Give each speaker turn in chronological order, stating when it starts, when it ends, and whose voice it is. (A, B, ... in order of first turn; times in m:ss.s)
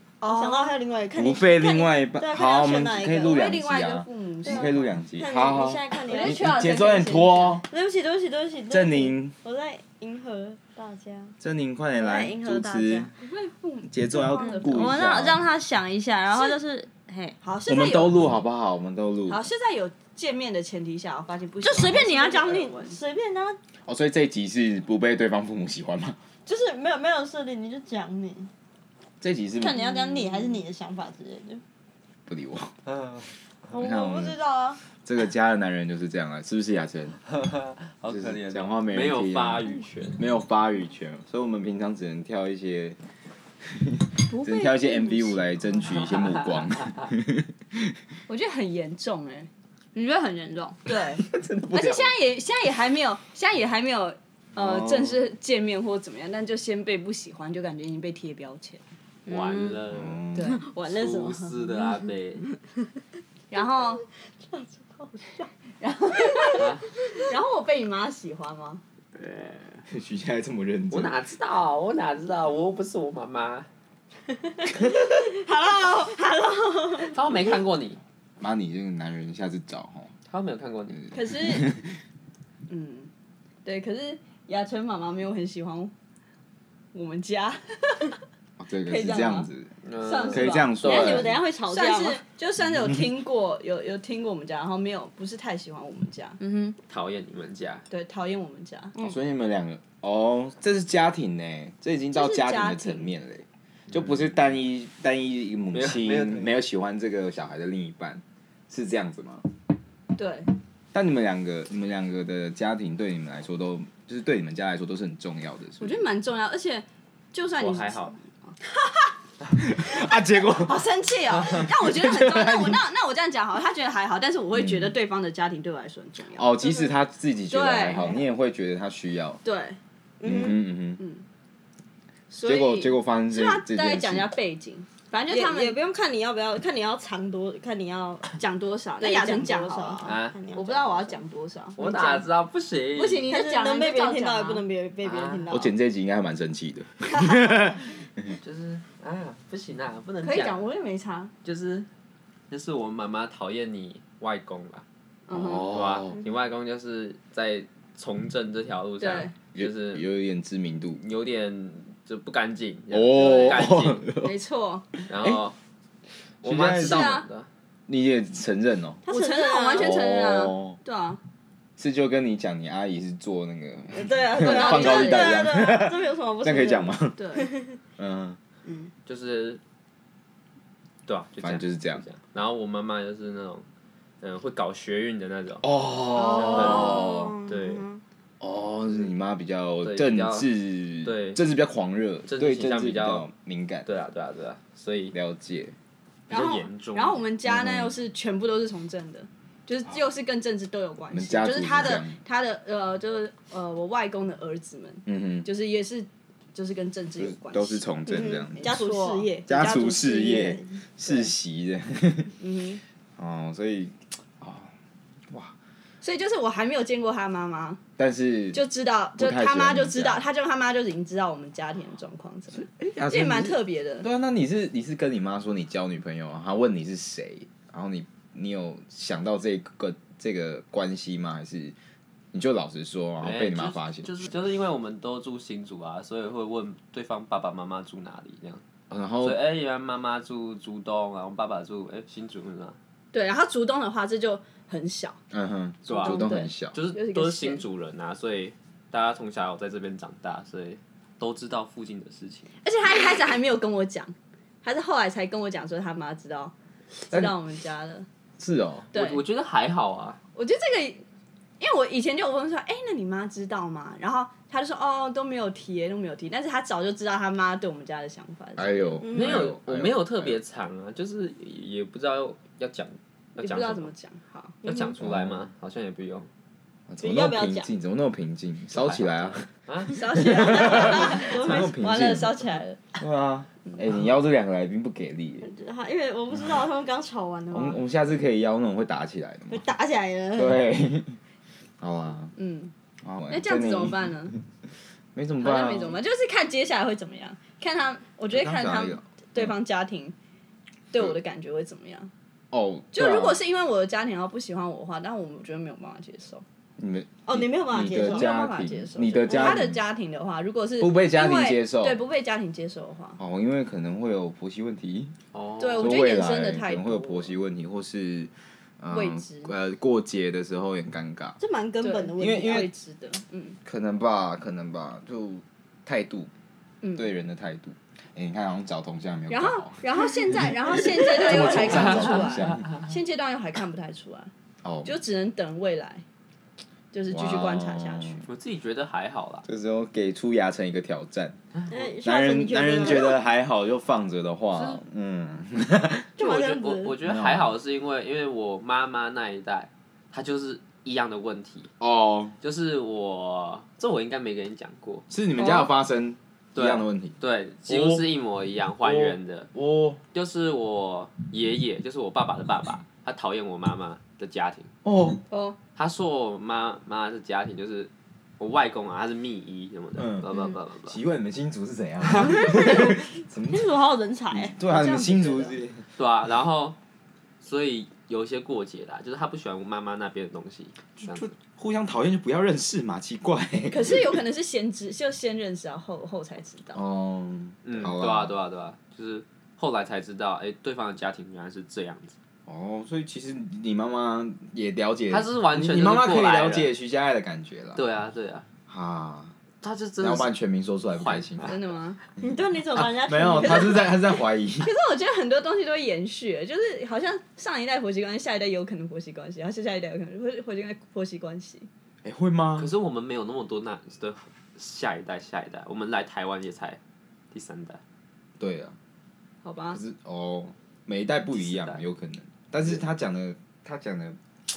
0:00.2-0:03.4 A
0:00.2-0:00.8 B
0:01.1-0:07.6 C
0:03.2-0:04.8 B
0:04.4-0:06.9 A
0:06.1-0:07.6 B
0:07.6-0:11.4 A
0:08.7-0:09.4 C
0:11.4-0:13.1 C
0:12.0-0:13.1 A
0:13.2-0:15.0 B
0:13.9-0:15.5 C
0:14.4-0:17.4 A
0:16.3-0:16.6 B
0:17.4-0:18.2 B
0:17.7-0:19.4 C
0:19.3-0:23.0 B
0:21.6-0:23.6 A
0:23.9-0:26.2 C
0:26.5-0:28.5 A
0:29.2-0:30.0 C
0:29.6-0:31.6 A
0:32.3-0:32.7 C
0:33.7-0:34.8 A
0:33.8-0:37.2 C
0:37.4-0:40.2 D
0:38.1-0:43.0 C
0:43.7-0:47.8 C
0:44.3-0:45.8 B
0:45.9-0:47.0 D
0:48.3-0:58.8 B
0:50.9-0:52.2 C
0:54.6-0:55.2 C
0:59.3-1:02.4 D
0:59.3-0:59.8 A
0:59.9-1:00.6 C
1:00.3-1:00.6 B
1:00.5-1:01.9 A
1:03.5-1:04.0 B
1:03.6-1:05.5 A
1:05.8-1:08.8 B
1:06.5-1:06.9 D
1:09.2-1:09.8 D
1:09.9-1:11.2 C
1:10.9-1:13.7 D
1:15.4-1:16.1 A
1:15.7-1:17.2 B
1:17.1-1:18.0 D
1:18.4-1:20.1 C
1:20.3-1:21.0 D
1:21.0-1:22.0 C
1:21.1-1:21.7 B
1:22.7-1:23.1 B
1:23.6-1:25.9 B
1:26.9-1:28.2 B
1:28.6-1:29.7 C
1:28.9-1:29.5 B
1:29.8-1:31.4 D
1:30.0-1:30.9 B
1:30.2-1:31.4 C
1:30.8-1:32.2 A
1:31.7-1:36.4 B
1:36.4-1:36.8 A
1:36.9-1:37.9 D
1:37.9-1:39.0 B
1:39.0-1:49.5 C
1:42.1-1:43.1 B
1:45.7-1:46.6 D
1:50.2-1:50.5 B
1:50.9-1:56.0 C
1:55.8-1:58.6 B
1:57.6-1:58.2 D
1:59.5-2:00.8 C
1:59.9-2:06.5 B
2:01.4-2:02.8 C
2:04.5-2:05.0 C
2:06.4-2:09.4 C
2:06.6-2:06.9 A
2:07.5-2:08.2 B
2:09.4-2:09.8 B
2:10.2-2:10.6 A
2:10.2-2:11.0 C
2:11.0-2:11.2 B
2:12.3-2:15.8 B
2:12.4-2:14.3 C
2:15.3-2:18.4 A
2:18.4-2:22.3 B
2:19.0-2:21.2 A
2:20.0-2:20.4 D
2:21.8-2:23.3 D
2:23.0-2:24.6 B
2:23.3-2:25.8 A
2:25.0-2:25.5 D
2:25.5-2:27.9 C
2:27.1-2:27.8 A
2:28.4-2:30.6 D
2:30.2-2:31.3 B
2:31.4-2:31.9 D
2:32.5-2:34.8 D
2:35.3-2:35.7 B
2:35.3-2:36.2 C
2:35.6-2:40.0 D
2:39.0-2:39.3 B
2:39.6-2:41.0 C
2:41.0-2:44.1 D
2:42.9-2:44.4 C
2:44.2-2:44.9 B
2:44.9-2:45.4 C
2:45.1-2:45.6 D
2:46.4-2:47.2 C
2:46.4-2:47.5 D
2:46.8-2:47.3 B
2:47.9-2:49.0 C
2:49.0-2:49.9 A
2:49.1-2:51.2 B
2:49.8-2:50.8 C
2:51.8-2:57.2 C
2:53.9-2:57.8 A
2:54.4-2:55.4 B
2:57.2-2:57.4 B
2:58.0-2:58.4 C
2:58.6-2:58.9 A
2:59.1-2:59.6 D
3:01.1-3:03.6 D
3:01.4-3:02.0 C
3:04.2-3:05.6 D
3:05.6-3:07.4 C
3:06.1-3:08.0 A
3:06.4-3:07.9 D
3:08.4-3:13.9 C
3:09.8-3:10.5 D
3:11.0-3:11.4 D
3:12.3-3:13.3 D
3:13.8-3:15.2 D
3:15.1-3:15.8 C
3:16.3-3:17.2 D
3:16.3-3:27.9 B
3:17.4-3:18.0 C
3:21.1-3:22.2 C
3:25.1-3:25.5 C
3:27.2-3:28.8 C
3:28.1-3:31.3 A
3:28.6-3:29.5 B
3:29.5-3:32.3 C
3:32.4-3:32.8 B
3:33.2-3:34.7 C
3:36.0-3:37.8 B
3:38.0-3:38.6 C
3:38.5-3:44.1 B
3:39.2-3:40.3 C
3:42.5-3:51.8 C
3:52.3-3:54.1 C
3:53.2-3:58.6 D
3:58.9-3:59.4 C
3:59.2-4:02.8 D
4:03.1-4:05.2 B
4:05.3-4:06.8 C
4:05.9-4:12.5 D
4:06.0-4:07.6 B
4:12.6-4:14.1 B
4:14.6-4:16.5 B
4:17.1-4:18.1 B
4:17.1-4:17.4 C
4:18.4-4:18.9 C
4:18.9-4:20.2 D
4:18.9-4:19.3 B
4:20.4-4:21.0 B
4:21.6-4:29.0 B
4:28.6-4:30.4 C
4:29.0-4:29.5 A
4:29.1-4:33.9 D
4:33.4-4:34.6 B
4:34.6-4:36.3 D
4:35.0-4:35.5 C
4:36.9-4:42.4 C
4:37.0-4:37.7 A
4:38.7-4:40.1 D
4:39.9-4:42.8 B
4:40.5-4:41.8 A
4:43.0-4:45.5 C
4:45.4-4:47.8 A
4:47.5-4:49.7 C
4:49.5-4:50.6 A
4:50.3-4:51.2 C
4:51.8-4:52.3 C
4:52.4-4:52.7 B
4:53.0-4:54.2 C
4:53.3-4:54.4 B
4:55.2-4:56.0 C
4:55.4-5:00.2 B
4:58.3-4:59.6 C
5:00.9-5:02.1 B
5:02.5-5:03.4 C
5:02.9-5:06.4 B
5:06.8-5:09.8 C
5:07.3-5:08.3 A
5:07.9-5:13.2 B
5:09.3-5:09.6 A
5:10.8-5:12.0 C
5:13.2-5:15.2 C
5:15.3-5:16.0 D
5:15.6-5:17.4 B
5:15.8-5:21.4 C
5:18.9-5:19.5 B
5:21.4-5:22.7 A
5:21.8-5:23.6 B
5:22.2-5:22.7 C
5:23.6-5:26.3 C
5:26.8-5:27.1 B
5:27.0-5:32.7 C
5:29.3-5:34.3 B
5:31.5-5:32.6 D
5:34.6-5:35.0 C
5:34.8-5:36.0 B
5:36.9-5:38.3 B
5:37.1-5:38.2 C
5:38.3-5:39.4 D
5:39.4-5:41.4 C
5:41.6-5:41.8 D
5:41.7-5:43.2 A
5:42.0-5:46.1 C
5:44.5-5:44.8 D
5:46.2-5:47.0 A
5:46.2-5:51.7 D
5:47.0-5:47.5 C
5:51.8-5:52.4 C
5:52.4-5:55.1 D
5:55.1-5:58.1 C
5:55.4-5:55.7 B
5:56.6-5:59.5 D
5:58.8-6:00.0 C
6:00.1-6:04.7 D
6:04.8-6:05.2 C
6:05.8-6:11.0 D
6:10.0-6:10.3 C
6:10.8-6:13.7 C
6:12.3-6:14.5 A
6:14.3-6:15.9 C
6:14.6-6:15.6 B
6:16.0-6:16.8 D
6:17.4-6:21.3 D
6:21.0-6:24.2 C
6:23.7-6:26.8 B
6:26.7-6:28.4 C
6:27.6-6:32.2 D
6:32.5-6:37.8 C
6:35.1-6:36.7 D
6:37.8-6:38.4 D
6:38.7-6:39.3 C
6:39.6-6:40.3 D
6:40.0-6:41.6 C
6:40.9-6:41.5 D
6:41.4-6:42.0 B
6:42.2-6:44.0 A
6:42.7-6:44.7 C
6:43.3-6:43.9 B
6:44.6-6:51.7 B
6:52.0-6:52.7 C
6:52.6-6:56.8 D
6:57.3-6:57.8 D
6:58.4-6:58.8 C
6:59.4-6:59.8 B
6:59.7-7:04.2 C
7:01.3-7:01.8 D